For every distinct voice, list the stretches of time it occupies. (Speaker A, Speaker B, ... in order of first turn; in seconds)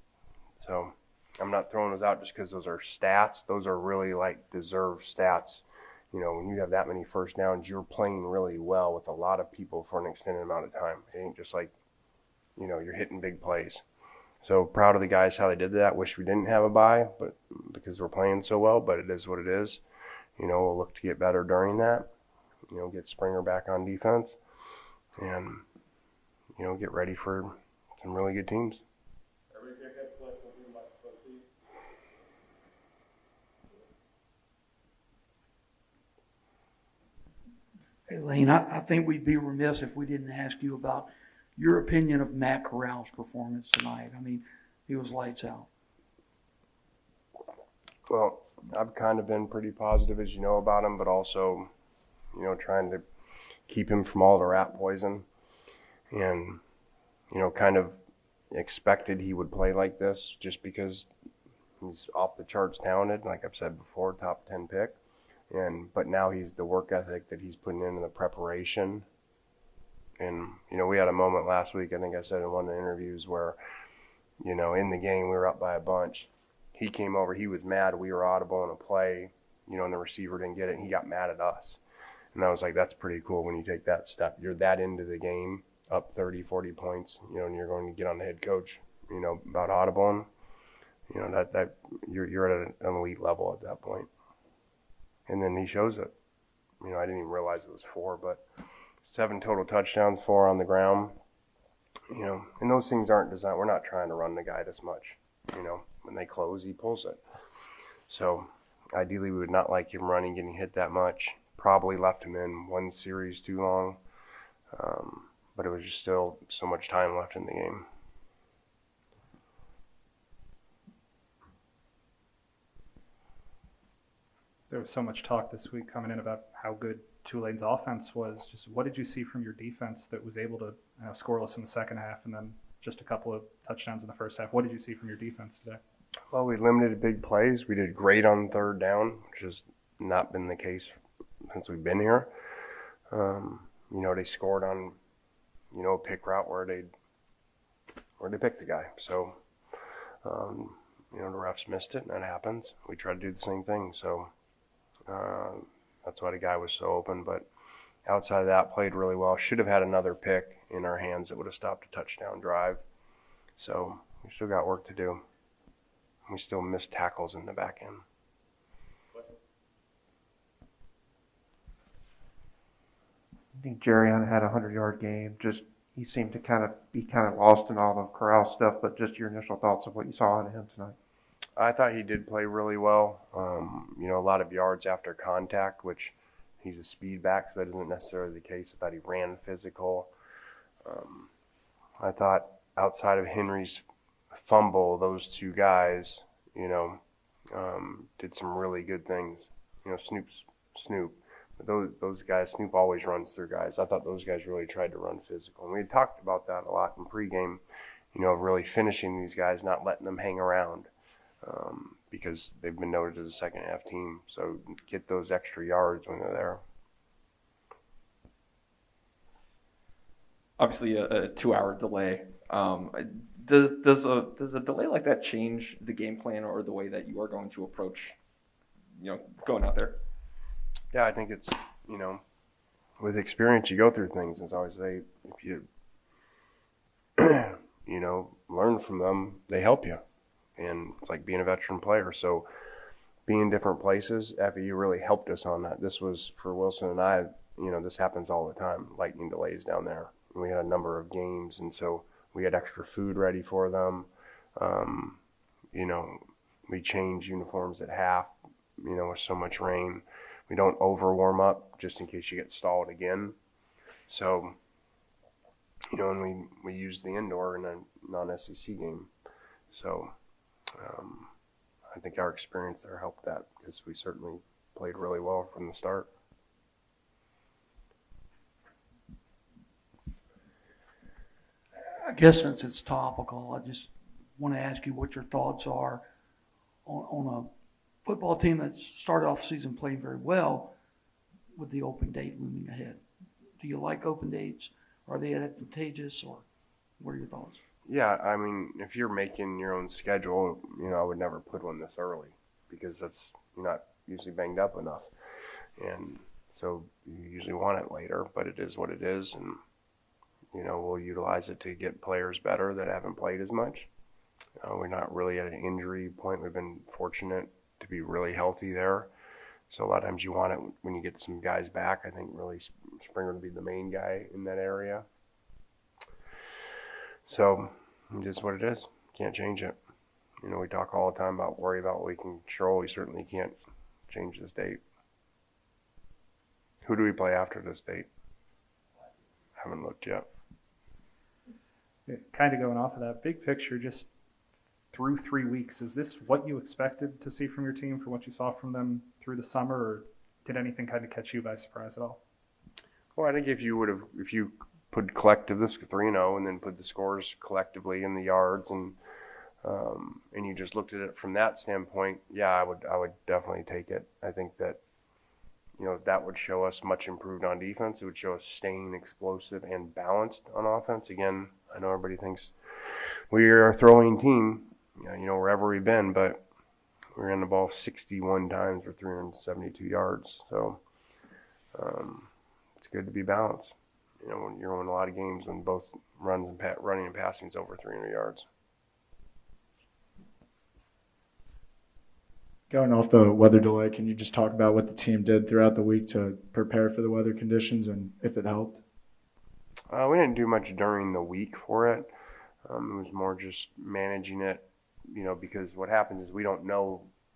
Speaker A: 0.6-11.7, 12.6-13.8, 14.4-19.8, 20.4-22.1, 22.7-24.4, 25.2-25.6, 26.6-28.8, 48.1-51.7, 52.3-53.0, 53.7-55.3, 56.1-56.6, 57.3-58.0, 58.5-61.1, 61.8-65.0, 65.5-69.1, 70.2-73.6, 74.4-81.8, 82.3-90.3, 91.1-94.1, 95.3-96.1, 96.8-98.4, 99.0-101.2, 102.1-107.2, 108.1-114.0, 114.7-117.9, 136.3-142.3, 143.1-145.0, 145.7-146.9, 148.2-149.4, 150.2-154.3, 155.1-157.5, 158.1-162.8, 163.6-165.2, 166.3-168.0, 181.6-190.1, 190.8-191.3, 192.0-207.6, 208.1-210.9, 211.4-216.6, 230.9-232.2, 233.0-235.7, 237.2-240.0, 240.6-242.5, 243.3-255.2, 255.7-263.4, 264.1-264.6, 265.9-269.1, 269.7-270.1, 270.8-271.3, 271.9-276.1, 297.9-305.1, 305.8-309.6, 310.5-313.9, 314.6-319.1, 319.7-325.1, 327.3-329.8, 330.4-334.8, 336.8-338.1, 339.6-340.3, 353.2-359.0, 359.6-364.8, 365.8-372.6, 373.3-376.4, 377.1-380.8, 381.7-388.5, 399.9-402.1, 402.6-407.1
Speaker B: 38.1-45.7, 282.1-286.0, 286.9-287.5, 288.1-290.7, 291.6-293.0, 293.6-296.4, 297.0-297.6
Speaker C: 124.7-135.8, 342.1-344.1, 344.9-352.2
Speaker D: 173.6-181.0
Speaker E: 220.6-228.2, 229.0-230.0
Speaker F: 392.7-398.8